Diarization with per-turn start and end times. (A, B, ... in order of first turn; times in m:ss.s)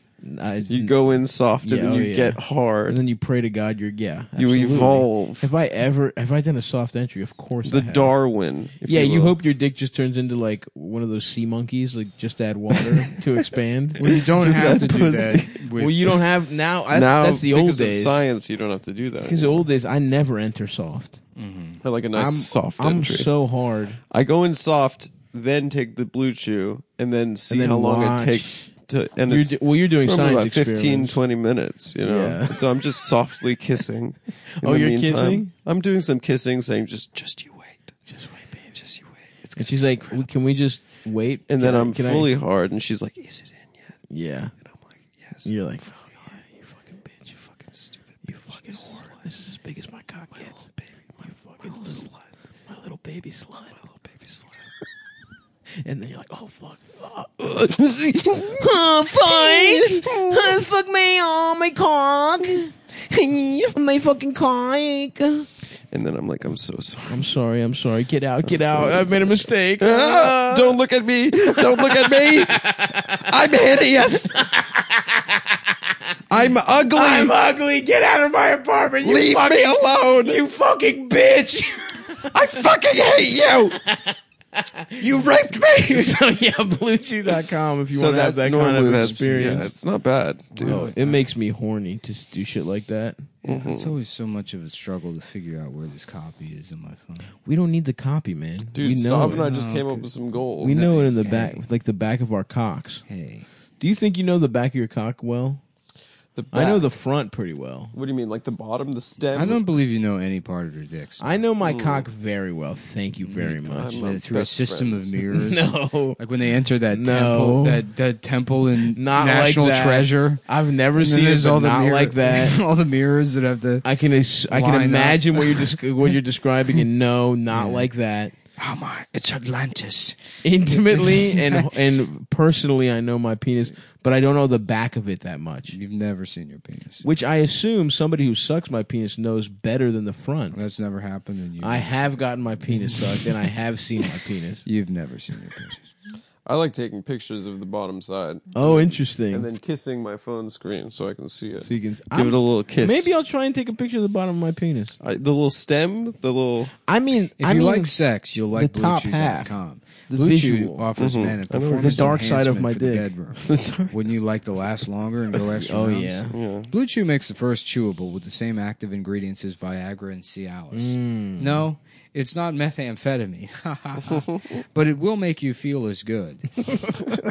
0:00.2-0:08.1 A
0:00.7-0:03.0 B
0:04.4-0:05.5 B
0:07.6-0:09.4 B
0:08.8-0:18.2 A
0:14.0-0:16.1 C
0:14.4-0:15.5 B
0:16.9-0:19.6 B
0:19.2-0:21.2 A
0:21.4-0:21.8 C
0:21.8-0:23.3 B
0:22.1-0:24.0 A
0:24.1-0:37.9 B
0:27.5-0:28.6 A
0:29.3-0:31.2 A
0:32.0-0:32.9 A
0:34.6-0:35.5 A
0:38.1-0:38.7 A
0:38.8-0:39.6 B
0:39.5-0:42.3 A
0:41.5-0:44.0 B
0:44.1-0:44.5 A
0:44.6-0:46.3 B
0:45.4-0:47.3 A
0:47.5-0:49.1 B
0:48.2-0:50.7 A
0:50.4-0:50.7 B
0:51.2-0:52.1 A
0:51.6-0:52.2 B
0:52.7-0:53.7 A
0:53.8-0:54.5 B
0:55.8-1:05.5 A
0:59.5-0:59.8 B
1:05.9-1:07.3 B
1:07.1-1:10.8 A
1:08.4-1:14.4 B
1:11.4-1:13.4 A
1:14.3-1:16.0 A
1:16.3-1:17.3 B
1:16.9-1:22.3 A
1:19.0-1:20.4 B
1:22.3-1:23.8 B
1:23.8-1:29.7 A
1:25.0-1:26.0 B
1:27.9-1:31.0 B
1:30.5-1:31.2 C
1:30.6-1:33.2 A
1:33.4-1:33.9 B
1:33.4-1:37.3 C
1:37.4-1:39.5 A
1:38.7-1:41.0 B
1:39.3-1:40.0 C
1:40.6-1:43.0 A
1:40.8-1:41.6 C
1:43.1-1:43.5 C
1:43.8-1:45.6 A
1:46.3-1:46.9 B
1:46.5-1:47.9 A
1:47.9-1:49.6 B
1:49.3-1:51.4 C
1:51.2-1:54.0 A
1:51.6-1:52.0 B
1:53.4-1:55.1 B
1:53.9-2:03.8 C
1:55.3-1:56.2 A
1:56.9-1:57.8 A
1:58.9-2:02.6 A
2:03.8-2:08.3 A
2:04.5-2:05.7 C
2:07.5-2:07.9 C
2:08.6-2:11.7 C
2:10.4-2:15.8 A
2:15.7-2:17.0 C
2:17.0-2:20.6 A
2:20.5-2:22.1 C
2:21.6-2:24.6 A
2:22.7-2:23.0 C
2:24.6-2:25.9 C
2:26.4-2:33.2 B
2:28.5-2:29.5 A
2:31.6-2:35.0 A
2:35.0-2:36.8 B
2:36.8-2:37.9 A
2:37.4-2:56.5 C
2:38.5-2:39.6 A
2:40.1-2:40.9 A
2:41.0-2:42.1 B
2:41.7-2:43.1 A
2:43.4-2:43.9 B
2:45.6-2:46.4 A
2:46.3-2:46.7 B
2:50.7-2:51.7 A